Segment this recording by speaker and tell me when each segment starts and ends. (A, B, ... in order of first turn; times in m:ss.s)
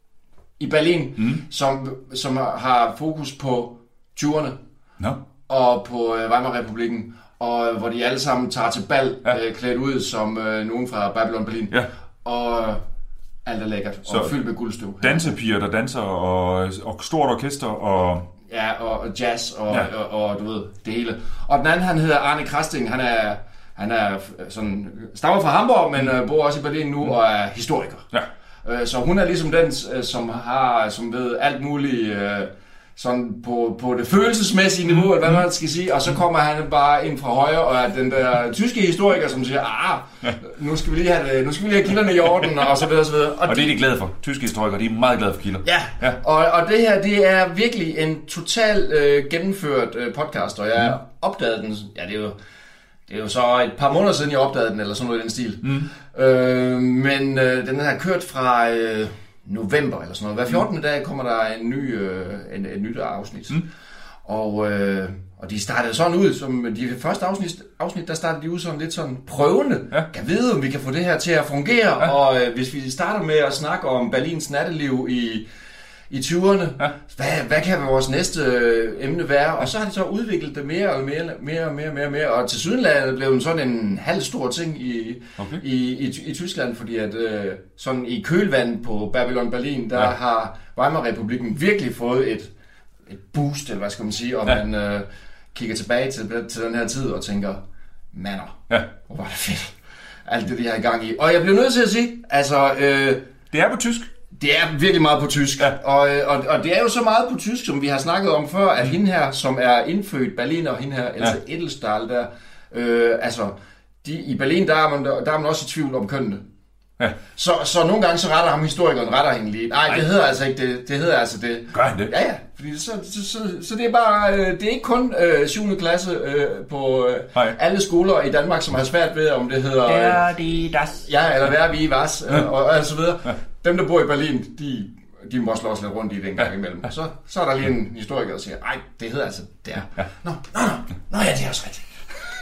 0:00.6-0:04.6 A
0:01.2-0:01.4 B
0:05.5-0:12.8 A
0:13.4-0:15.3 A
0:14.1-0:14.4 B
0:15.0-0:18.3 B
0:18.5-0:28.0 A
0:28.6-0:43.8 A
0:35.0-0:35.4 B
0:43.4-0:46.2 B
0:45.6-0:52.4 A
0:53.1-1:03.6 A
0:55.6-0:55.9 B
1:04.2-1:15.5 A
1:16.1-1:32.5 A
1:33.1-1:37.6 A
1:38.1-1:39.7 A
1:40.3-1:43.2 A
1:43.5-1:44.1 B
1:44.3-1:56.4 A
1:57.3-2:21.8 A
2:01.7-2:02.1 B
2:09.8-2:11.0 B